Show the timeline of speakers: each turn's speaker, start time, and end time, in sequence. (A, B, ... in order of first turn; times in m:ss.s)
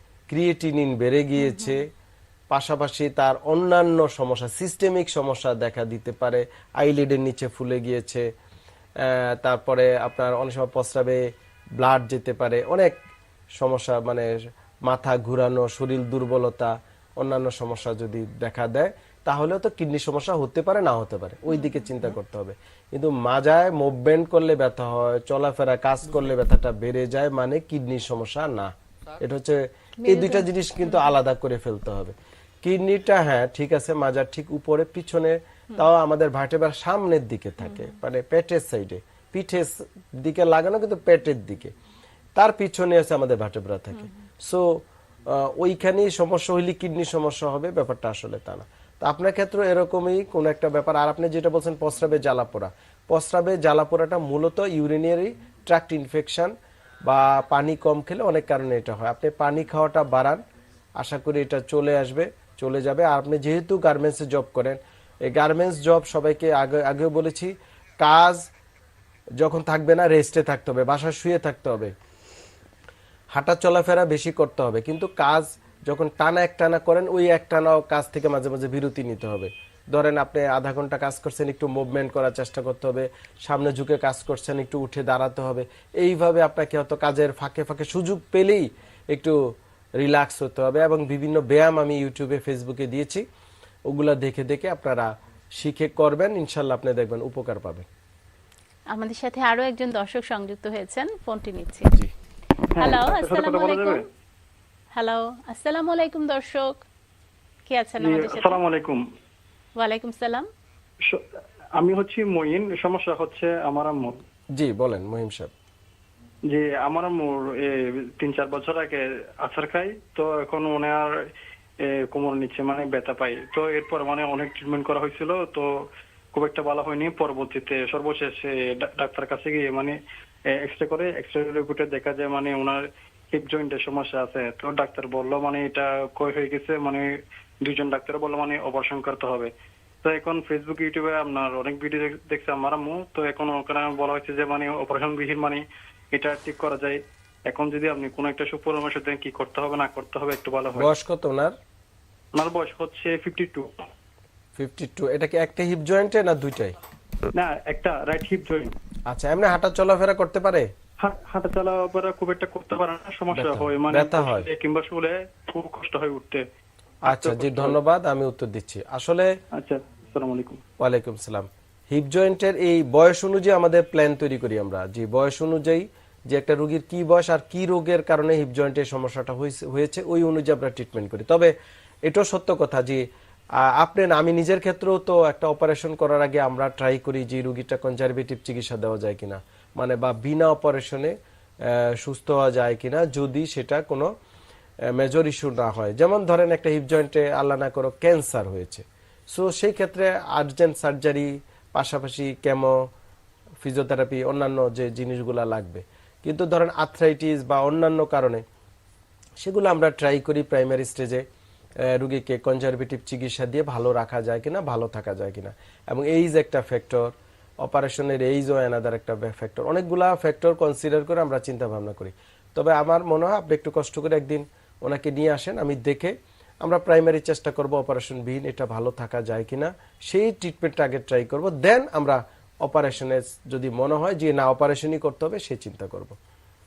0:00.3-0:01.9 A
0:01.4-0:01.8 B
0:02.5-0:08.2 A
0:09.0-0:11.2 A
0:11.8-0:13.0 A
0:13.6-0:14.3 A
0:14.9-0:41.7 A
0:30.0-0:31.1 B
0:42.4-0:56.5 A
0:57.0-1:00.4 A
1:01.0-1:08.4 A
1:09.4-1:11.9 A
1:13.3-1:29.4 A
1:30.0-1:33.2 A
1:33.9-1:37.9 A
1:38.9-1:41.9 B
1:42.8-1:44.0 C
1:42.8-1:44.0 B
1:44.9-1:46.8 B
1:47.7-1:48.6 B
1:48.0-1:49.0 C
1:49.8-1:50.5 B
1:51.8-1:54.2 C
1:54.6-1:55.5 A
1:56.5-2:01.1 C
2:01.8-2:05.7 C
2:06.3-2:10.0 C
2:10.6-2:12.8 C
2:13.3-2:17.1 C
2:17.6-2:19.5 C
2:20.0-2:30.9 C
2:30.7-2:31.5 A
2:32.4-2:33.8 C
2:34.6-2:36.8 A
2:37.4-2:38.7 C
2:39.1-2:40.7 A
2:41.0-2:46.4 C
2:43.3-2:44.5 A
2:47.1-2:47.8 C
2:47.1-2:49.3 A
2:49.6-2:50.6 C
2:50.8-3:01.5 A
3:02.0-3:03.0 A
3:03.6-3:14.1 A
3:14.9-3:22.8 A
3:23.6-3:28.4 A
3:29.4-3:31.2 A
3:31.9-3:56.2 A